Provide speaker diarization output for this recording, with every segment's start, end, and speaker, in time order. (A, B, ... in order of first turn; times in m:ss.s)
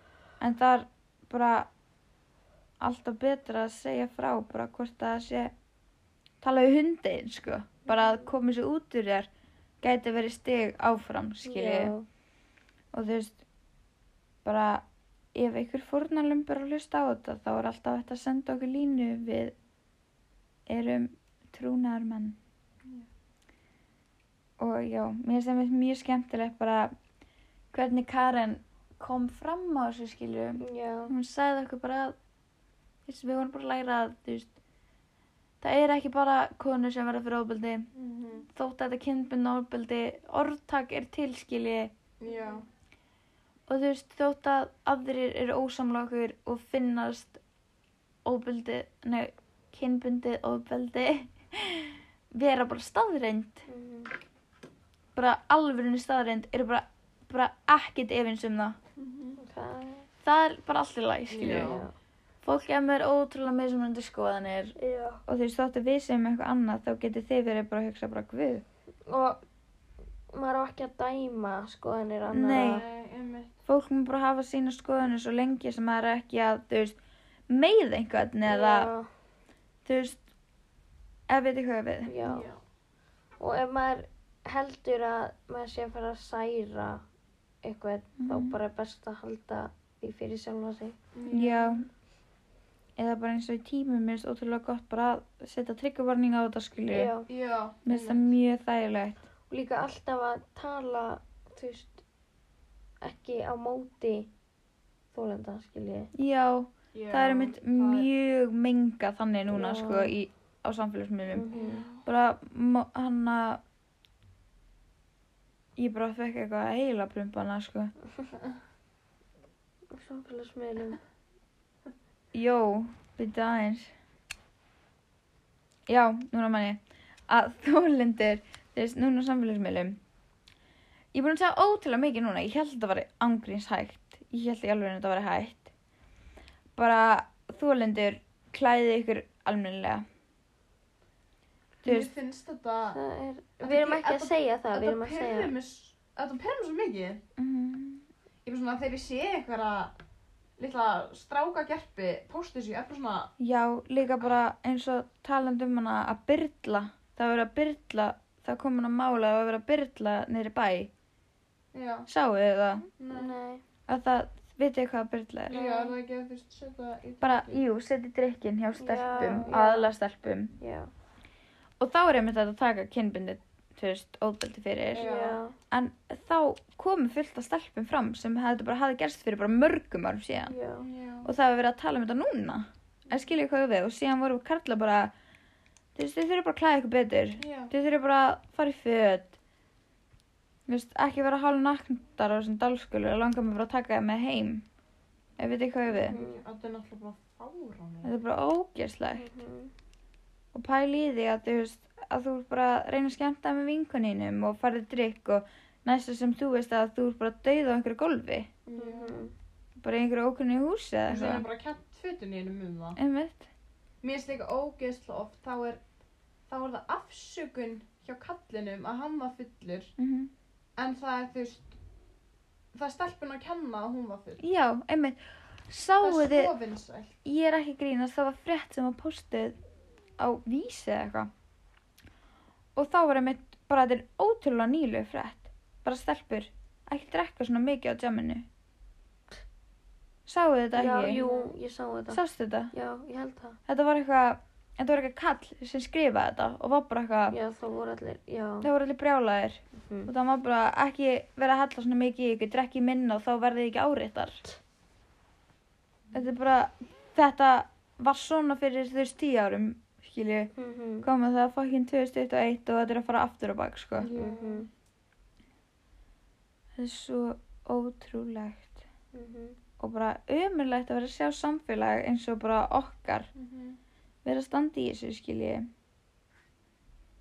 0:00.4-0:01.7 A
0:02.8-0:05.5 A
0:06.4-0:09.3 A
0:09.8-0:11.9 A
0:11.4-0:12.0 B
0:12.9-0:13.4 A
0:14.4-0:19.5 A
0:20.7-0:22.4 A
0:24.6-0:26.9 A
0:27.7-0:32.2 A
0:30.6-0:31.1 B
0:33.1-0:34.5 A
0:35.6-0:37.9 A
0:37.9-0:38.5 C
0:38.5-0:41.9 A
0:42.2-0:42.6 C
0:43.7-0:47.4 A
0:48.2-0:53.6 A
0:53.7-0:54.1 B
0:55.1-0:58.8 A
0:59.0-0:59.4 C
0:59.4-1:00.1 B
1:00.2-1:01.8 A
1:01.3-1:01.8 C
1:01.4-1:01.9 B
1:02.4-1:08.6 A
1:04.8-1:05.2 B
1:09.1-1:09.4 B
1:10.3-1:12.8 B
1:12.3-1:12.8 A
1:12.4-1:13.6 C
1:13.7-1:17.0 A
1:17.5-1:18.9 A
1:18.5-1:19.1 B
1:19.8-1:20.2 A
1:21.3-1:22.1 A
1:22.1-1:22.5 B
1:22.2-1:22.6 C
1:23.4-1:27.0 B
1:27.6-1:31.0 B
1:28.2-1:28.6 A
1:31.1-1:31.8 C
1:31.3-1:31.8 A
1:33.0-1:37.1 A
1:36.9-1:37.3 B
1:37.3-1:38.3 C
1:37.8-1:39.2 A
1:39.5-1:42.0 B
1:43.0-1:44.3 B
1:45.1-1:46.1 B
1:46.2-1:51.5 A
1:46.9-1:48.1 C
1:49.5-1:50.2 B
1:51.3-1:51.8 B
1:51.5-1:52.0 C
1:52.0-1:53.6 A
1:55.8-1:57.9 A
1:59.9-2:01.0 B
2:02.3-2:03.9 A
2:05.9-2:10.0 A
2:11.1-2:15.7 A
2:16.8-2:20.0 A
2:21.8-2:22.1 A
2:21.8-2:23.0 C
2:22.9-2:25.5 B
2:23.6-2:27.2 C
2:27.4-2:28.0 A
2:28.4-2:29.9 C
2:30.6-2:33.3 C
2:33.4-2:40.9 A
2:41.7-2:42.1 C
2:42.1-2:42.8 A
2:43.0-2:43.3 C
2:43.0-2:43.6 B
2:43.9-2:45.6 A
2:45.5-2:45.9 B
2:45.5-2:47.6 C
2:47.2-2:50.5 A
2:48.8-2:49.9 B
2:49.2-2:49.6 C
2:50.6-2:50.9 B
2:51.8-2:55.1 A
2:54.9-2:55.5 B
2:54.9-2:55.4 C
2:55.7-3:00.5 A
3:00.5-3:00.8 B
3:00.8-3:01.3 C
3:01.2-3:05.1 A
3:06.0-3:09.3 A
3:07.4-3:07.7 C
3:10.7-3:14.6 A
3:15.4-3:16.2 A
3:15.9-3:18.2 C
3:15.9-3:16.4 B
3:18.0-3:19.3 A
3:19.2-3:19.7 B
3:20.5-3:28.5 A
3:28.6-3:29.3 C
3:28.7-3:29.3 B
3:29.8-3:31.4 A
3:31.1-3:33.0 C
3:33.0-3:33.5 A
3:34.0-3:35.8 C
3:36.5-3:39.9 C
3:40.0-3:40.3 A
3:40.8-3:41.7 C
3:42.7-3:44.4 C
3:44.4-3:46.5 A
3:46.0-3:47.1 C
3:47.2-3:49.6 A
3:50.2-3:51.3 A
3:52.7-3:58.5 A
4:00.3-4:01.2 A
4:00.7-4:02.2 B
4:01.0-4:01.5 C
4:02.1-4:02.7 A
4:02.7-4:03.6 B
4:03.7-4:07.4 A
4:07.3-4:08.7 B
4:08.6-4:14.4 A
4:09.8-4:10.1 B
4:16.1-4:24.1 A
4:20.5-4:21.0 B
4:24.0-4:24.7 C
4:24.1-4:24.7 B
4:26.8-4:28.8 A
4:29.1-4:29.6 B
4:29.8-4:33.3 A
4:33.3-4:33.8 C
4:34.2-4:35.7 A